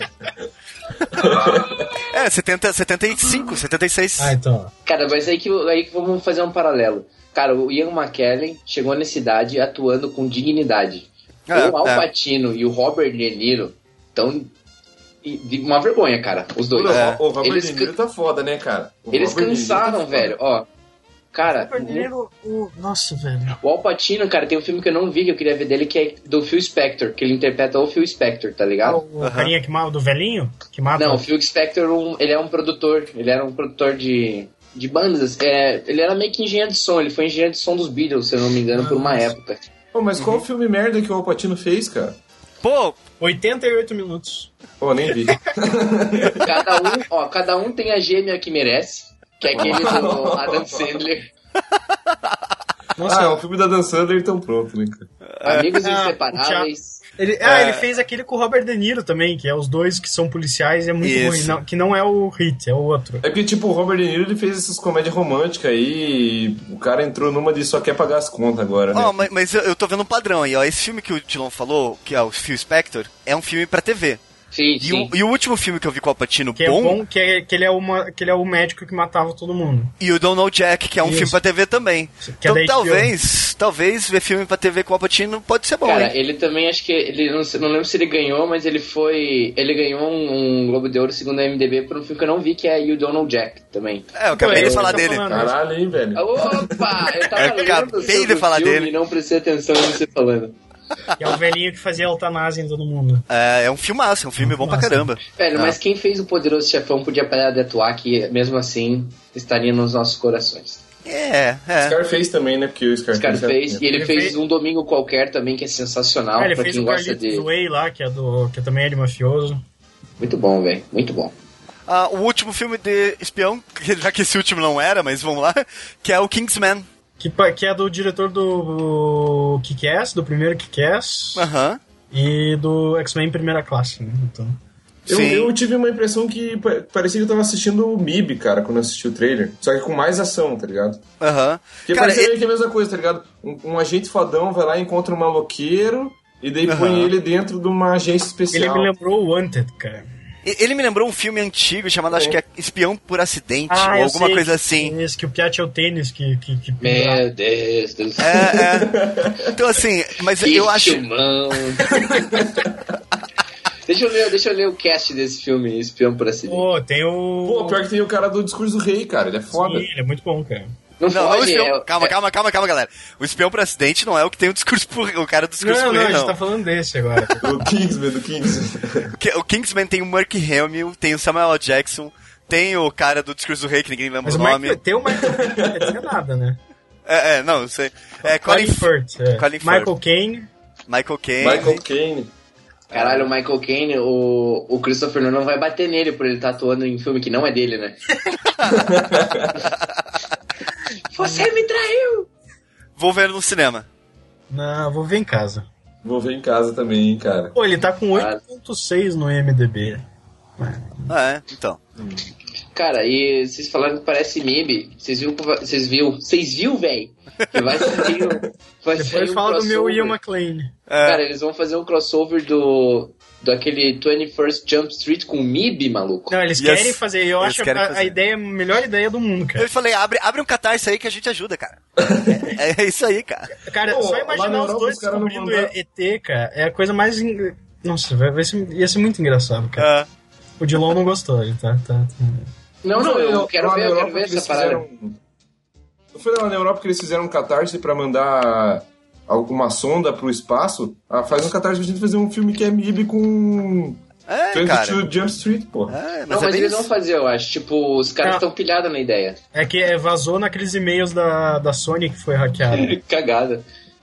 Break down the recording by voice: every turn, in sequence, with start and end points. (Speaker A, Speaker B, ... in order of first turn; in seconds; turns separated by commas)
Speaker A: 1.1-1.9, Speaker B: 2.1-4.4, Speaker C: 4.2-4.7, Speaker D: 4.9-14.5, Speaker B: 11.5-12.1, Speaker D: 15.2-17.9, Speaker A: 16.7-20.4, Speaker B: 16.9-17.2, Speaker D: 19.1-20.7, Speaker D: 21.3-22.1, Speaker C: 21.4-23.6, Speaker D: 23.6-29.0, Speaker C: 28.8-31.2, Speaker B: 29.2-29.5, Speaker D: 30.9-39.6, Speaker C: 38.7-39.3, Speaker A: 39.9-42.2, Speaker B: 40.2-40.5, Speaker B: 42.6-43.0, Speaker C: 43.2-44.5, Speaker A: 44.8-46.5, Speaker D: 46.4-51.3, Speaker A: 49.5-51.0, Speaker B: 52.1-52.4, Speaker C: 53.0-53.4, Speaker A: 53.0-55.1, Speaker B: 55.4-55.7, Speaker D: 55.4-57.0, Speaker C: 55.8-63.2, Speaker B: 57.4-57.9, Speaker B: 61.0-61.6, Speaker A: 63.2-69.2, Speaker B: 68.9-74.2, Speaker D: 74.5-75.1, Speaker B: 74.8-77.0, Speaker C: 76.6-79.9, Speaker B: 80.0-86.1, Speaker C: 81.0-81.4, Speaker C: 82.2-83.1, Speaker D: 85.8-95.1, Speaker B: 94.2-95.2, Speaker C: 94.4-95.6, Speaker A: 95.0-97.1, Speaker D: 96.2-100.6, Speaker B: 97.4-98.9, Speaker C: 101.2-103.3, Speaker B: 103.3-105.8, Speaker C: 104.4-105.2, Speaker D: 105.4-110.8, Speaker B: 111.1-112.0, Speaker A: 111.8-113.8, Speaker D: 113.1-117.5, Speaker C: 113.9-114.4, Speaker C: 116.4-119.6, Speaker D: 120.2-121.3, Speaker B: 121.9-126.9, Speaker C: 127.2-131.5, Speaker B: 131.3-131.8, Speaker C: 132.1-134.6, Speaker A: 135.1-141.0, Speaker B: 135.1-135.6, Speaker B: 141.2-142.3, Speaker A: 141.9-148.9, Speaker B: 146.7-147.1, Speaker C: 148.5-150.1, Speaker B: 150.4-154.9, Speaker C: 153.7-157.2, Speaker D: 156.8-158.4, Speaker B: 158.2-161.0, Speaker A: 158.7-159.5, Speaker D: 160.4-161.9, Speaker A: 161.9-162.8, Speaker D: 163.9-166.7, Speaker C: 166.5-167.8, Speaker A: 167.4-169.9, Speaker C: 169.5-170.8, Speaker D: 171.0-172.1, Speaker B: 171.1-176.4, Speaker C: 175.6-177.5, Speaker A: 177.4-179.2, Speaker B: 179.2-184.8, Speaker C: 184.2-186.6, Speaker A: 185.2-186.0, Speaker B: 187.1-189.9, Speaker C: 188.2-190.5, Speaker B: 190.9-191.8, Speaker A: 191.4-192.3, Speaker D: 192.9-198.0, Speaker A: 192.9-193.2, Speaker A: 198.7-199.6, Speaker D: 201.1-202.3, Speaker B: 203.0-203.9, Speaker C: 204.5-205.7, Speaker A: 206.0-207.5, Speaker C: 207.5-210.0, Speaker D: 208.1-208.4, Speaker C: 210.6-211.1, Speaker B: 211.1-211.8, Speaker D: 212.7-220.2, Speaker C: 218.9-220.7, Speaker B: 220.9-221.2, Speaker D: 221.0-226.4, Speaker C: 226.3-229.7, Speaker B: 226.6-228.2, Speaker B: 229.6-233.6, Speaker A: 232.0-232.5, Speaker C: 233.6-239.9, Speaker A: 233.9-235.7, Speaker B: 239.8-240.1, Speaker C: 240.6-242.5, Speaker D: 242.8-244.8, Speaker A: 242.9-245.2, Speaker A: 246.1-254.0, Speaker B: 254.3-255.0, Speaker A: 254.5-256.0, Speaker B: 255.9-256.9, Speaker D: 256.3-259.4, Speaker C: 259.5-263.0, Speaker D: 262.7-263.7